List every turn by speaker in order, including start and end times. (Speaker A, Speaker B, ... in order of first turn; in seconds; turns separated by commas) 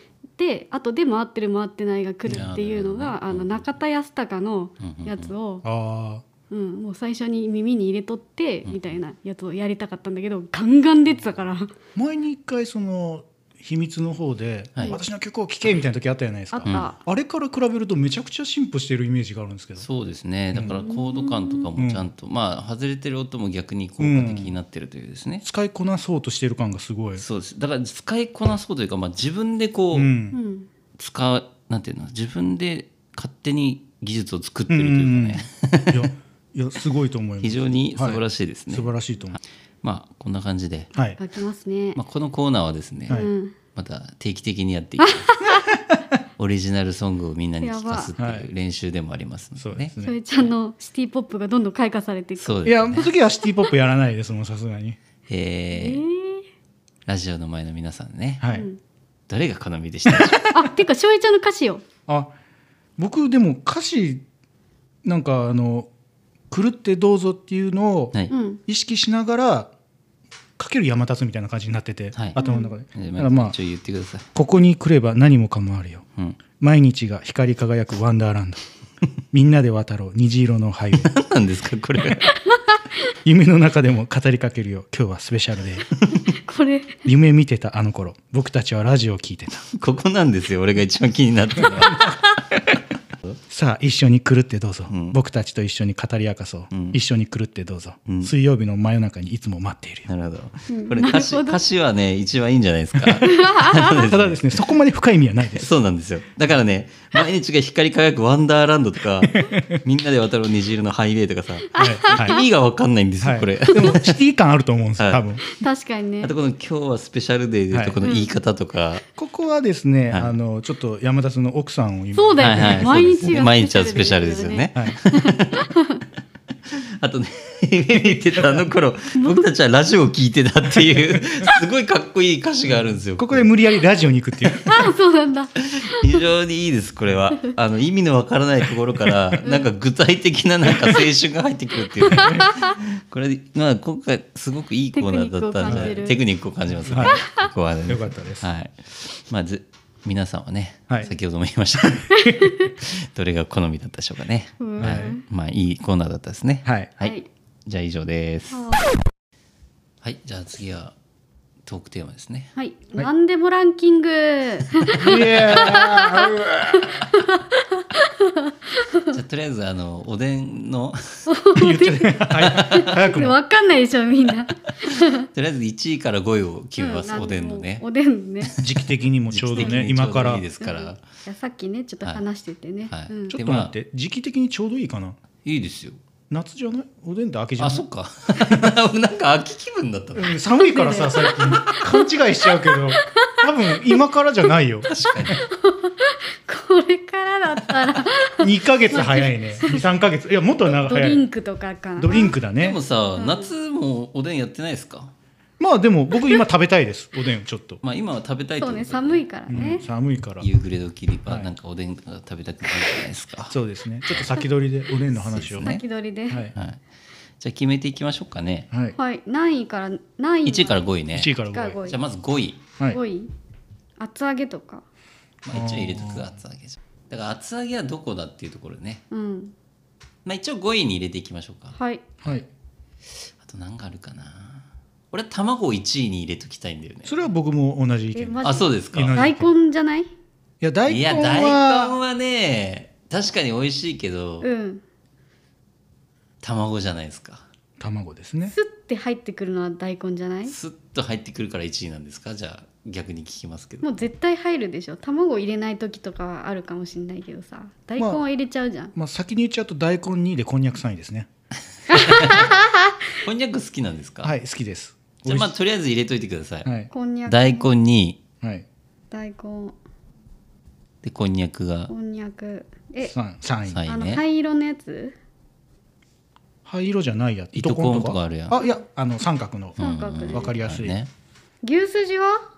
Speaker A: 0.4-5.6, Speaker B: 2.3-3.6, Speaker B: 4.8-5.3, Speaker C: 5.6-6.2, Speaker A: 6.5-11.7, Speaker B: 8.7-8.9, Speaker C: 11.9-19.9, Speaker A: 16.5-17.0, Speaker B: 16.6-16.9, Speaker B: 19.8-25.4, Speaker C: 20.5-20.8, Speaker A: 20.7-21.6, Speaker C: 21.7-22.0, Speaker C: 24.0-24.5, Speaker C: 25.4-27.2, Speaker B: 27.2-30.1, Speaker C: 29.9-30.4, Speaker A: 30.3-30.7, Speaker B: 31.0-36.1, Speaker C: 34.7-39.4, Speaker B: 37.4-40.9, Speaker A: 41.2-42.0, Speaker B: 41.9-45.3, Speaker A: 43.1-43.5, Speaker A: 45.0-45.6, Speaker C: 45.7-46.1, Speaker B: 46.4-49.9, Speaker A: 47.6-48.1, Speaker C: 48.2-48.5, Speaker C: 49.6-50.1, Speaker A: 50.0-52.7, Speaker B: 52.4-53.1, Speaker C: 52.6-55.0, Speaker B: 55.3-56.0, Speaker A: 55.7-56.4, Speaker B: 57.1-58.4, Speaker C: 58.4-58.7, Speaker A: 58.5-58.8, Speaker B: 59.3-60.5, Speaker C: 60.0-60.4, Speaker A: 60.5-61.8, Speaker C: 62.1-62.3, Speaker C: 63.0-64.2, Speaker C: 65.0-65.9, Speaker C: 66.5-68.1, Speaker A: 68.3-68.6, Speaker C: 68.7-69.7, Speaker C: 70.6-73.5, Speaker B: 72.1-74.3, Speaker A: 72.4-72.7, Speaker C: 74.3-76.0, Speaker C: 76.6-78.6, Speaker C: 79.3-81.1, Speaker B: 81.0-82.2, Speaker C: 83.2-85.8, Speaker A: 86.3-87.0, Speaker C: 87.0-89.7, Speaker B: 89.7-92.2, Speaker C: 91.8-92.2, Speaker C: 93.5-100.1, Speaker B: 94.9-95.2, Speaker B: 96.7-97.0, Speaker B: 98.1-98.3, Speaker B: 100.1-104.6, Speaker A: 100.7-101.6, Speaker A: 103.2-104.0, Speaker C: 104.1-105.7, Speaker B: 105.5-114.2, Speaker C: 109.4-109.8, Speaker A: 111.8-112.4, Speaker C: 111.8-112.4, Speaker C: 113.2-115.4, Speaker A: 115.5-116.3, Speaker B: 116.2-119.0, Speaker C: 117.7-118.0, Speaker A: 118.0-118.3, Speaker C: 119.2-123.4, Speaker B: 120.1-120.3, Speaker A: 122.1-126.0, Speaker B: 122.4-125.7, Speaker B: 126.7-133.5, Speaker C: 128.3-128.7, Speaker A: 129.1-129.4, Speaker C: 130.9-131.2, Speaker C: 133.2-134.8, Speaker A: 134.6-136.2, Speaker B: 135.7-158.7, Speaker A: 142.1-142.7, Speaker A: 144.9-146.2, Speaker C: 145.6-145.9, Speaker C: 146.8-147.2, Speaker A: 147.0-147.4, Speaker C: 147.9-148.5, Speaker A: 152.1-152.7, Speaker A: 154.6-155.2, Speaker C: 154.8-155.1, Speaker C: 156.6-156.9, Speaker A: 157.0-157.3, Speaker A: 158.5-158.8, Speaker B: 160.0-160.9, Speaker B: 161.6-162.5, Speaker A: 162.6-169.1, Speaker C: 164.9-167.0, Speaker B: 169.1-171.2, Speaker A: 171.3-175.3, Speaker C: 171.6-173.3, Speaker B: 175.3-177.8, Speaker A: 176.8-178.5, Speaker C: 178.6-180.4, Speaker B: 179.3-181.0, Speaker A: 179.6-179.8, Speaker A: 180.6-183.4, Speaker B: 182.8-183.7, Speaker C: 183.3-185.2, Speaker B: 185.4-186.0, Speaker C: 186.3-187.8, Speaker B: 187.6-190.4, Speaker C: 188.4-188.7, Speaker C: 190.1-195.3, Speaker A: 190.6-192.0, Speaker A: 192.7-194.0, Speaker B: 194.9-195.4, Speaker A: 195.3-199.8, Speaker C: 198.4-201.2, Speaker A: 200.7-202.3, Speaker C: 202.0-202.8, Speaker B: 202.6-205.1, Speaker A: 203.2-203.5, Speaker C: 205.6-207.8, Speaker B: 207.8-209.6, Speaker A: 208.6-209.8, Speaker C: 209.5-210.5, Speaker B: 210.4-213.5, Speaker C: 213.5-215.7, Speaker B: 214.1-214.3, Speaker B: 215.2-215.8, Speaker A: 215.6-216.4, Speaker B: 216.5-216.8, Speaker B: 217.4-218.7, Speaker C: 218.7-218.9, Speaker A: 218.9-220.8, Speaker B: 220.4-221.3, Speaker C: 221.1-221.8, Speaker A: 221.5-222.0, Speaker B: 221.8-222.6, Speaker A: 222.9-223.3, Speaker A: 224.0-224.8, Speaker B: 225.4-229.0, Speaker C: 225.5-226.3, Speaker A: 229.1-229.5, Speaker B: 230.2-231.8, Speaker A: 231.7-232.0, Speaker B: 233.4-237.1, Speaker C: 237.1-239.5, Speaker A: 238.1-240.1, Speaker B: 238.4-239.2, Speaker C: 240.6-242.0, Speaker B: 240.9-244.4, Speaker A: 244.4-244.8, Speaker B: 246.4-247.4, Speaker C: 247.8-248.5, Speaker A: 248.4-250.5, Speaker B: 250.5-253.9, Speaker A: 253.8-258.9, Speaker C: 258.0-258.2, Speaker C: 258.9-261.3, Speaker B: 261.9-262.5, Speaker A: 261.9-262.9, Speaker B: 263.2-264.3, Speaker C: 264.2-265.5, Speaker B: 265.2-266.7, Speaker A: 266.9-267.7, Speaker B: 267.2-268.2, Speaker A: 269.1-269.8, Speaker B: 271.0-271.9, Speaker A: 271.9-273.1, Speaker C: 273.1-273.9, Speaker B: 273.7-274.2, Speaker A: 273.9-275.1, Speaker C: 276.6-280.9, Speaker B: 277.5-278.6, Speaker A: 279.8-280.5, Speaker B: 279.8-281.1, Speaker A: 281.6-282.4